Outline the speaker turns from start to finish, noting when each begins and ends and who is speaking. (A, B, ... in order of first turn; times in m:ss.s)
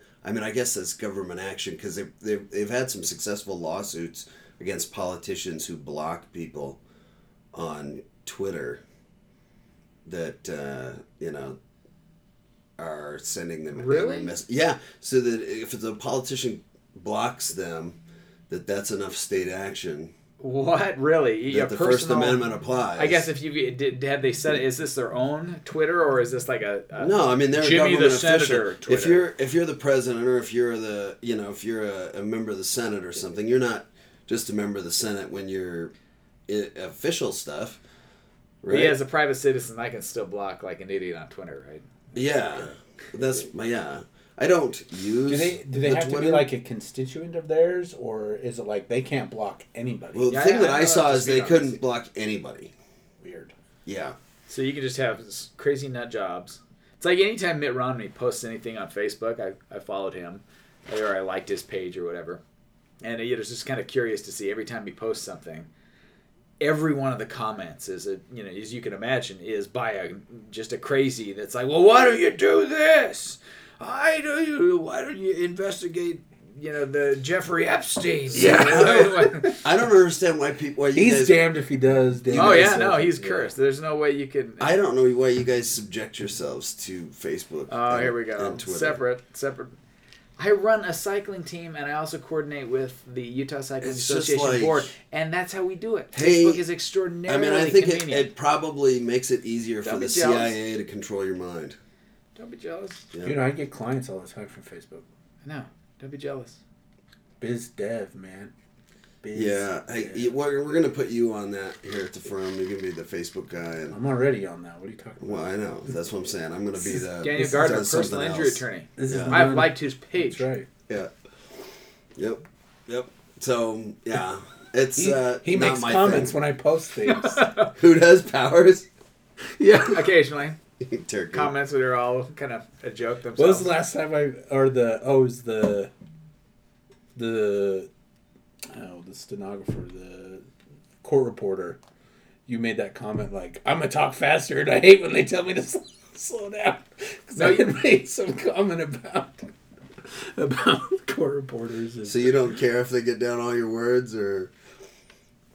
0:00.2-0:06.8 A
0:07.5-0:08.8 A
0:10.0-0:11.6 A
0:12.8-0:18.0 A
0:13.7-0:14.3 B
0:18.5-0:20.1 A
0:20.4-0:29.2 B
0:21.5-0:23.3 A
0:27.0-0:35.9 A
0:36.5-0:37.8 A
0:38.6-0:39.0 A
0:38.7-0:42.1 B
0:42.1-0:46.5 A
0:45.3-0:50.3 C
0:50.1-0:52.7 A
0:50.3-0:51.8 B
0:53.2-0:53.5 C
0:53.8-0:54.2 A
0:54.5-1:02.4 B
1:03.0-1:05.7 B
1:06.6-1:19.6 B
1:18.3-1:21.4 A
1:18.3-1:19.3 C
1:20.9-1:23.5 C
1:22.3-1:22.9 A
1:22.3-1:24.7 B
1:24.6-1:29.0 A
1:27.7-1:29.7 B
1:30.4-1:38.3 B
1:33.8-1:34.9 A
1:36.1-1:36.6 A
1:37.3-1:41.8 A
1:39.8-1:40.5 B
1:42.4-1:43.1 B
1:43.1-1:43.4 A
1:43.2-1:45.0 C
1:45.4-1:46.6 B
1:47.4-1:48.5 C
1:49.2-1:50.3 C
1:49.3-1:54.0 A
1:53.9-1:55.5 C
1:55.2-1:59.5 A
1:56.9-2:00.5 B
1:57.4-1:57.7 C
1:59.0-2:00.7 C
2:02.2-2:06.3 A
2:05.0-2:07.4 C
2:07.0-2:07.7 B
2:07.8-2:08.9 A
2:09.6-2:10.1 C
2:09.8-2:10.6 B
2:10.8-2:11.5 A
2:11.3-2:13.7 B
2:13.4-2:15.9 C
2:17.2-2:17.9 C
2:18.7-2:20.4 C
2:21.0-2:21.8 C
2:22.5-2:29.5 C
2:27.4-2:27.6 B
2:30.2-2:32.4 C
2:32.0-2:34.5 A